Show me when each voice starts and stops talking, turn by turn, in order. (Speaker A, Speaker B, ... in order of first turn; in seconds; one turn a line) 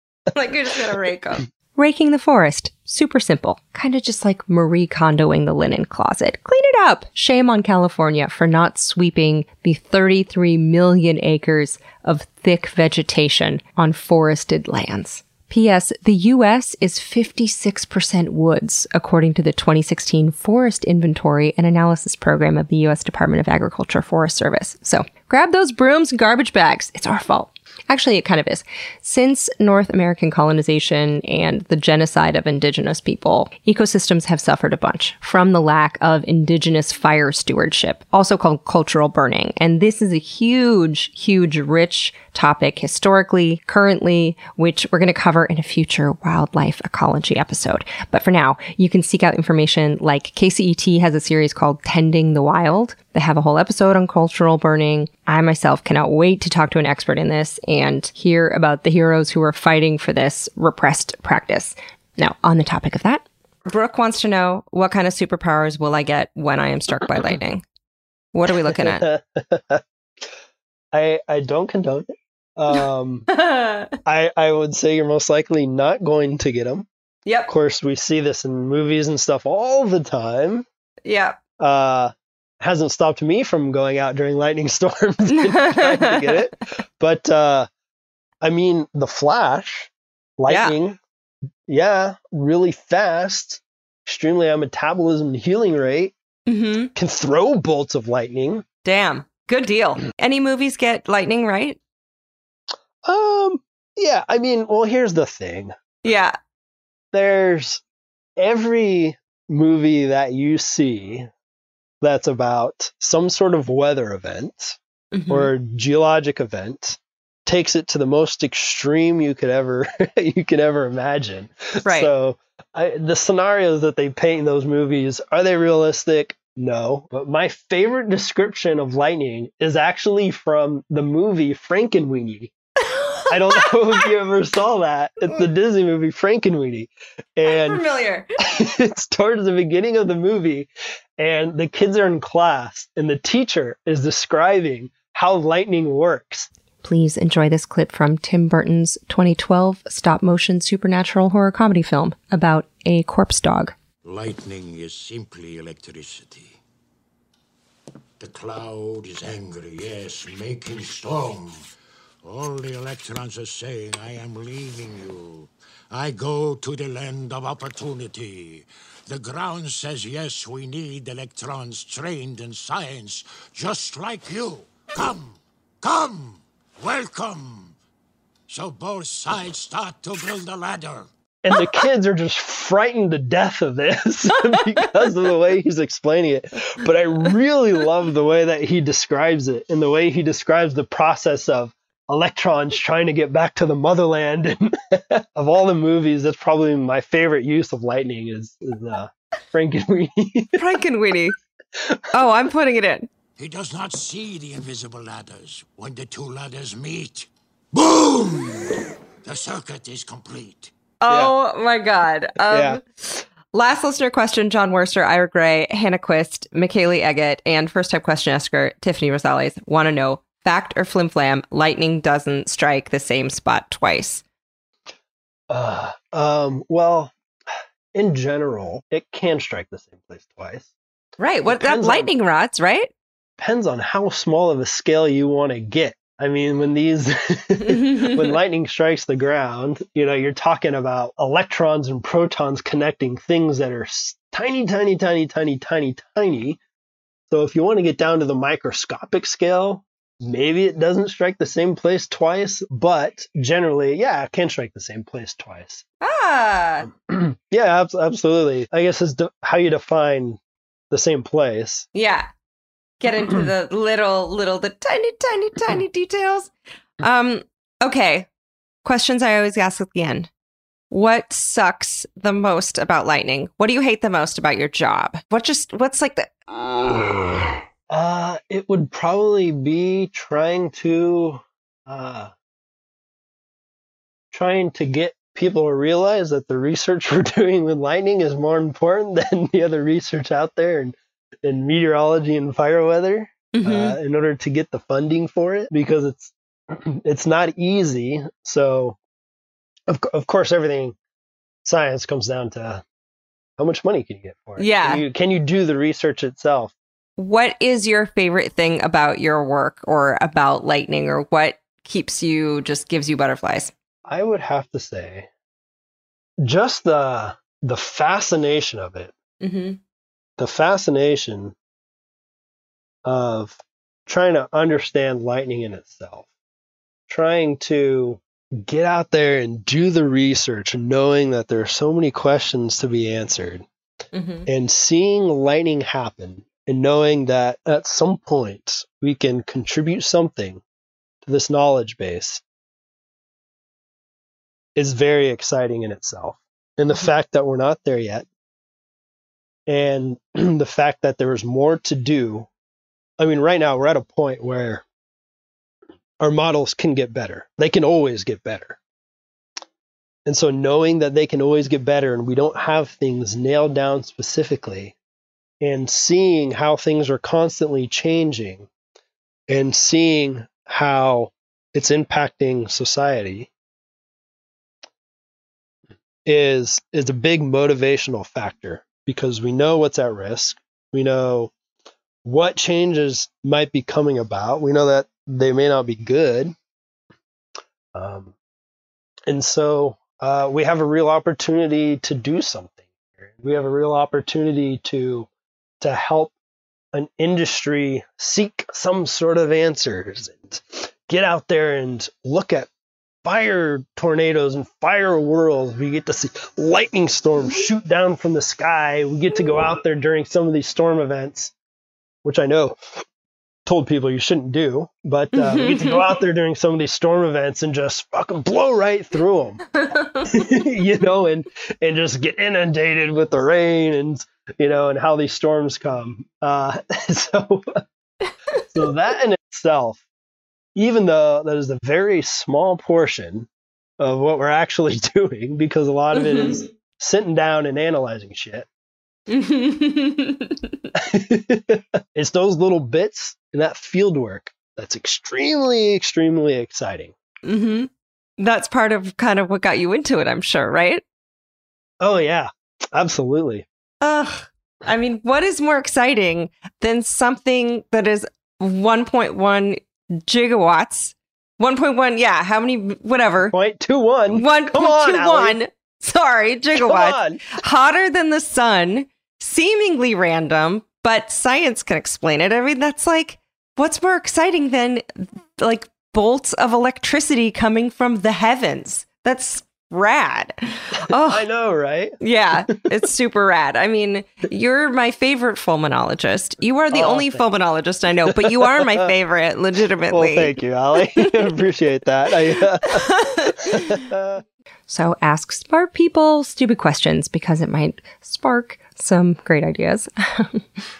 Speaker A: 0.3-67.6
Speaker A: 68.3-69.1
Speaker B: 68.5-69.8
Speaker B: 70.9-73.3
Speaker A: 73.3-73.9
Speaker B: 74.1-76.9
Speaker B: 77.5-80.7
Speaker A: 81.0-81.4
Speaker B: 81.6-87.7
Speaker A: 85.3-86.4
Speaker B: 88.4-91.0
Speaker A: 90.5-90.8
Speaker B: 91.7-96.1
Speaker A: 96.5-96.9
Speaker B: 97.0-98.6
Speaker A: 98.8-101.8
Speaker B: 103.0-105.8
Speaker A: 106.0-106.3
Speaker B: 107.1-107.8
Speaker B: 108.4-111.3
Speaker B: 112.0-114.8
Speaker A: 115.1-115.5
Speaker B: 115.3-132.5
Speaker A: 121.8-122.1
Speaker A: 132.9-134.1
Speaker B: 133.3-137.8
Speaker A: 137.4-138.4
Speaker B: 138.4-146.5
Speaker A: 146.8-153.8
Speaker C: 154.0-156.6
Speaker C: 158.2-161.6
Speaker C: 162.2-177.8
Speaker C: 178.5-181.1
Speaker B: 181.4-200.6
Speaker A: 200.6-201.4
Speaker A: 202.1-203.1
Speaker C: 203.4-210.7
Speaker A: 211.0-224.2
Speaker B: 211.1-211.3
Speaker B: 212.5-212.8
Speaker B: 225.5-227.1
Speaker B: 227.9-230.7
Speaker A: 231.2-232.9
Speaker B: 231.5-232.1
Speaker B: 233.4-246.6
Speaker A: 237.7-238.3
Speaker B: 247.3-255.8
Speaker A: 256.0-256.9
Speaker B: 257.1-260.4
Speaker B: 260.9-261.9
Speaker A: 261.9-262.3
Speaker A: 263.0-268.3
Speaker A: 268.8-270.3
Speaker A: 270.9-276.3
Speaker B: 277.9-282.3
Speaker B: 284.3-299.0
Speaker A: 293.5-294.0
Speaker B: 299.9-301.0
Speaker B: 301.6-302.8
Speaker B: 303.6-306.7
Speaker A: 304.6-305.0
Speaker A: 307.2-313.7
Speaker B: 314.1-315.3
Speaker B: 316.4-319.1
Speaker A: 319.4-319.8
Speaker B: 320.4-321.6
Speaker B: 323.1-326.3
Speaker B: 327.1-333.6
Speaker A: 334.1-334.5
Speaker B: 334.5-340.6
Speaker B: 341.2-342.4
Speaker B: 344.8-348.3
Speaker B: 349.7-352.5
Speaker B: 353.2-354.8
Speaker B: 356.2-358.8
Speaker B: 360.3-365.0
Speaker B: 365.6-368.7
Speaker B: 369.5-373.5
Speaker B: 376.3-381.5
Speaker B: 382.2-386.5
Speaker B: 387.9-388.3
Speaker B: 389.3-395.3
Speaker B: 395.8-396.3
Speaker B: 396.9-402.7
Speaker B: 403.2-411.5
Speaker B: 412.2-413.0
Speaker B: 413.7-419.6
Speaker A: 415.4-416.1
Speaker A: 419.8-420.3
Speaker B: 420.2-427.8
Speaker B: 428.7-430.0
Speaker B: 430.8-433.5
Speaker B: 434.0-438.7
Speaker A: 436.1-436.6
Speaker A: 439.3-440.7
Speaker B: 440.9-447.1
Speaker A: 447.4-451.0
Speaker B: 452.0-453.6
Speaker A: 454.0-463.5
Speaker B: 463.4-465.6
Speaker A: 464.3-481.4
Speaker B: 466.7-467.4
Speaker B: 481.0-482.2
Speaker A: 482.2-490.6
Speaker B: 486.9-487.4
Speaker B: 488.3-489.1
Speaker B: 490.1-494.4
Speaker A: 492.9-494.0
Speaker A: 494.9-500.6